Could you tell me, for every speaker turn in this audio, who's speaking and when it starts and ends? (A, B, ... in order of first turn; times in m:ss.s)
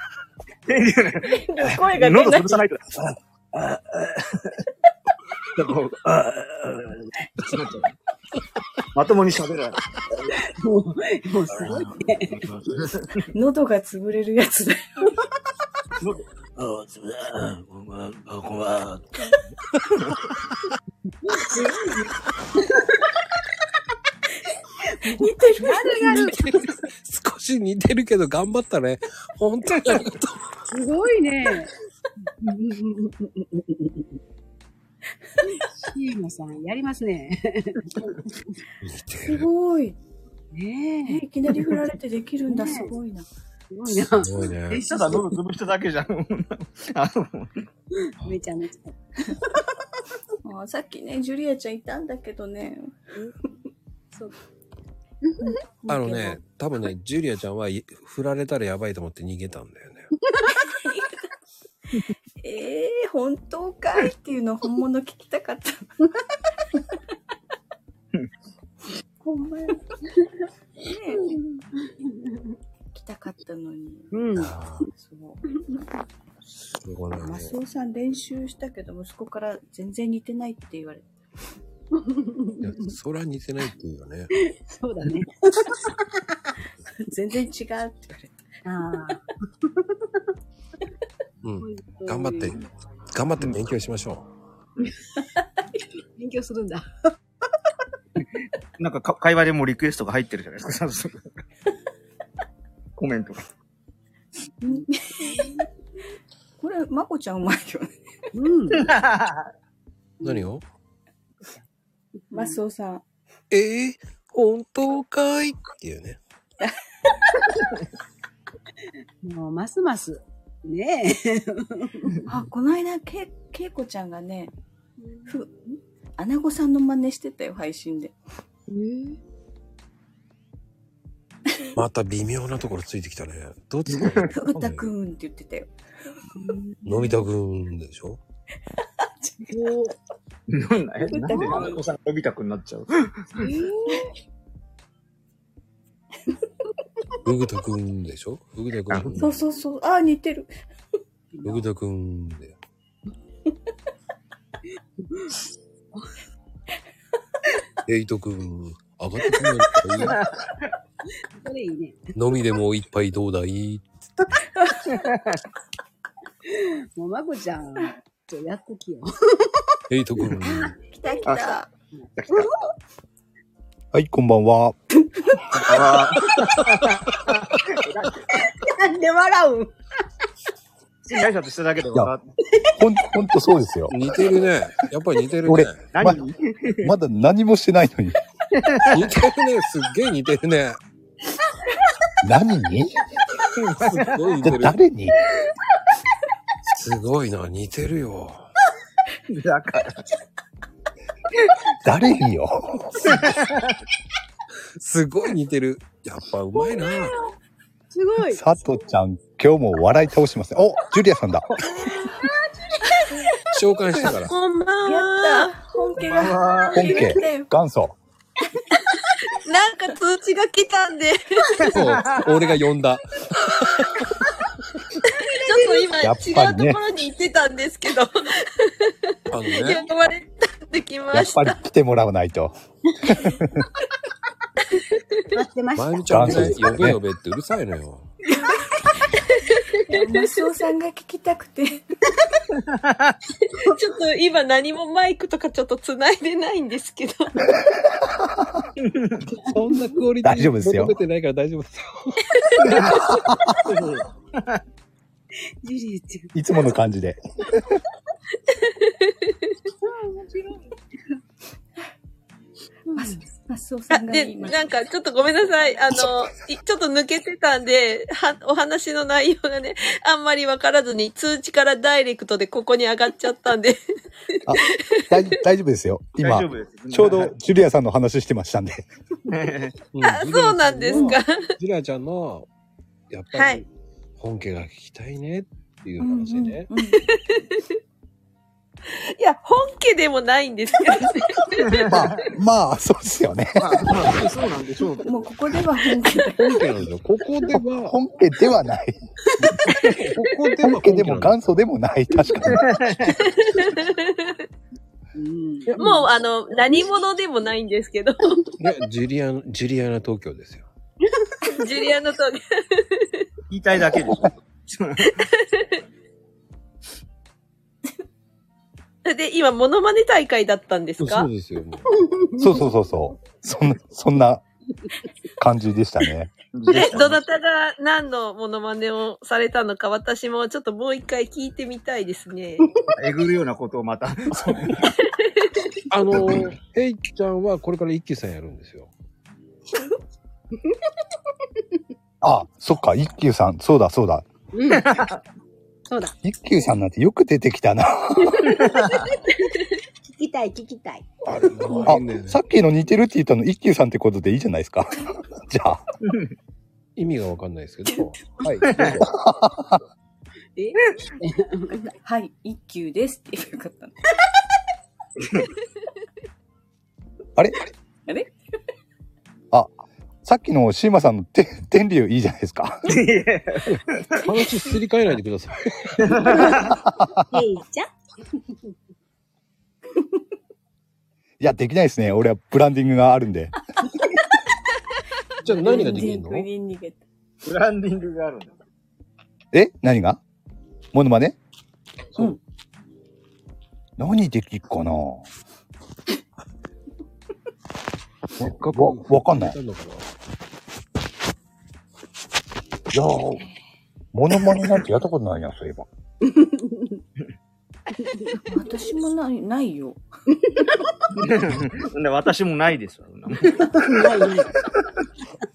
0:00.7-0:04.6 A
0:01.6-0:02.6 B
0:05.6-0:07.9 A
0:08.9-0:10.4 A
0:10.5-0:12.4 C
0:11.5-0:13.3 A
0:13.3-0:15.2 D
0:17.5-0:18.2 A
0:21.2-0:22.1 C
0:24.9-0:26.7 C
0:25.2-0:26.6 D
0:26.2-0:30.4 E
0:30.7-0:31.7 C
0:32.4-0:33.2 C
0:35.5-0:38.6 C
0:38.8-0:39.5 E
0:39.2-0:40.0 D
0:40.5-0:41.8 C
0:41.1-0:43.3 D
0:42.5-0:42.9 C
0:43.7-0:45.3 C
0:44.1-0:44.8 E
0:44.8-0:47.5 A
0:48.0-0:49.7 C
0:50.4-0:52.9 D
0:55.3-0:55.6 C
0:55.8-0:56.4 D
0:55.9-1:00.1 E
1:00.6-1:01.2 D
1:02.4-1:06.1 D
1:09.2-1:09.8 D
1:10.8-1:11.4 D
1:12.9-1:14.1 D
1:14.1-1:14.5 C
1:14.4-1:14.9 E
1:14.9-1:15.6 D
1:16.6-1:17.6 E
1:17.2-1:21.1 D
1:21.9-1:22.9 C
1:22.6-1:24.3 E
1:24.4-1:26.2 C
1:27.0-1:28.4 D
1:28.6-1:29.3 C
1:31.4-1:34.3 E
1:31.6-1:32.6 C
1:36.2-1:37.0 C
1:38.8-1:41.4 A
1:43.0-1:43.4 A
1:44.6-1:45.4 D
1:44.7-1:45.6 C
1:46.6-1:48.0 D
1:48.3-1:48.9 C
1:48.8-1:49.5 A
1:50.2-1:50.5 C
1:50.2-1:50.6 E
1:52.3-1:53.0 D
1:52.3-1:52.6 C
1:53.5-1:56.2 E
1:57.2-1:57.5 D
1:59.2-2:02.1 C
2:02.3-2:04.5 D
2:05.3-2:08.1 D
2:08.7-2:09.2 C
2:11.7-2:14.9 E
2:13.9-2:14.3 A
2:14.3-2:15.7 D
2:16.4-2:17.1 C
2:16.8-2:18.2 E
2:19.0-2:19.6 D
2:19.5-2:20.0 C
2:20.5-2:23.2 A
2:21.1-2:21.8 D
2:21.1-2:21.7 C
2:23.4-2:24.1 C
2:27.2-2:29.4 E
2:28.9-2:29.2 A
2:29.2-2:30.5 D
2:31.3-2:31.6 C
2:31.4-2:32.6 E
2:37.9-2:40.2 E
2:40.2-2:40.6 A
2:41.2-2:42.0 C
2:42.2-2:43.9 E
2:44.6-2:44.9 D
2:44.9-2:45.4 A
2:46.5-2:49.8 C
2:49.9-2:50.8 E
2:50.4-2:51.7 D
2:51.2-2:51.6 A
2:52.0-2:52.5 C
2:52.2-2:52.5 A
2:53.9-2:54.8 F
2:55.1-2:55.6 D
2:55.6-2:58.3 A
2:58.3-2:59.8 C
3:01.0-3:02.3 A
3:02.8-3:04.0 F
3:03.9-3:05.8 E
3:05.4-3:06.2 F
3:05.9-3:06.9 A
3:06.8-3:08.2 F
3:08.5-3:09.0 A
3:08.9-3:10.8 E
3:12.2-3:13.0 F
3:13.6-3:14.3 A
3:13.8-3:14.8 E
3:14.4-3:15.2 F
3:16.7-3:18.5 E
3:19.3-3:20.0 A
3:21.8-3:23.3 F
3:23.0-3:23.8 A
3:24.8-3:27.2 E
3:27.9-3:28.4 C
3:28.3-3:31.5 F
3:33.5-3:34.3 E
3:34.0-3:35.6 B
3:34.8-3:37.5 D
3:36.0-3:37.1 A
3:36.7-3:38.0 F
3:39.4-3:41.6 B
3:41.7-3:44.0 E
3:41.7-3:42.2 A
3:45.3-3:51.6 B
3:46.0-3:46.8 F
3:49.3-3:49.9 E
3:51.1-3:52.5 F
3:53.2-3:53.6 F
3:55.3-3:56.5 C
3:55.8-3:58.1 E
3:56.1-3:57.0 F
3:59.4-4:00.2 B
3:59.9-4:01.8 D
4:02.6-4:03.1 A
4:03.6-4:07.4 B
4:08.8-4:09.2 A
4:09.3-4:12.3 E
4:10.2-4:11.0 F
4:12.6-4:14.6 A
4:13.2-4:13.6 F
4:15.6-4:16.3 C
4:16.3-4:17.2 F
4:19.8-4:20.6 C
4:22.9-4:23.2 C
4:22.9-4:24.8 D
4:23.9-4:33.8 B
4:34.5-4:38.9 F
4:34.5-4:34.8 B
4:36.2-4:37.4 A
4:39.3-4:39.8 A
4:39.9-4:42.5 E
4:40.0-4:41.5 B
4:43.1-4:46.7 E
4:43.3-4:43.6 B
4:46.0-4:47.0 D
4:46.8-4:47.6 B
4:49.2-4:51.9 B
4:51.7-4:52.2 A
4:51.9-4:54.1 F
4:53.6-4:55.2 A
4:55.0-4:56.7 D
4:56.4-4:58.0 E
4:57.5-4:59.0 F
4:59.6-5:01.4 E
5:00.6-5:02.7 F
5:02.5-5:03.2 A
5:03.2-5:04.4 B
5:05.2-5:06.1 C
5:05.8-5:08.3 B
5:08.6-5:10.7 E
5:11.4-5:13.1 B
5:13.5-5:15.2 A
5:15.2-5:15.8 B
5:19.0-5:21.3 B
5:21.0-5:21.9 E
5:21.9-5:22.6 C
5:22.4-5:24.4 F
5:25.4-5:26.3 F
5:26.5-5:27.2 A
5:26.7-5:32.7 B
5:32.9-5:34.8 A
5:34.9-5:35.3 B
5:35.9-5:38.9 E
5:42.2-5:44.2 F
5:44.5-5:44.9 C
5:44.7-5:45.2 A
5:45.9-5:46.2 C
5:46.2-5:48.6 F
5:48.6-5:49.0 A
5:48.8-5:51.1 C
5:51.3-5:52.4 E
5:51.8-5:55.8 F
5:57.0-5:59.1 E
5:58.7-5:59.0 A
5:59.0-5:59.8 F
6:00.6-6:01.9 C
6:02.0-6:04.1 D
6:07.4-6:07.6 F
6:08.1-6:08.3 D
6:09.5-6:12.9 F
6:12.9-6:14.3 A
6:13.7-6:16.3 E
6:16.0-6:16.8 A
6:16.2-6:16.8 C
6:17.3-6:17.9 C
6:21.4-6:23.6 F
6:25.4-6:27.0 D
6:25.4-6:26.5 E
6:27.4-6:28.6 A
6:29.5-6:30.2 F
6:30.9-6:31.4 F
6:34.0-6:35.3 F
6:38.4-6:39.6 F
6:38.4-6:40.1 E
6:42.9-6:43.4 F
6:44.1-6:45.9 F
6:46.2-6:47.0 C
6:48.3-6:50.0 D
6:51.2-6:53.8 A
6:53.7-6:54.6 C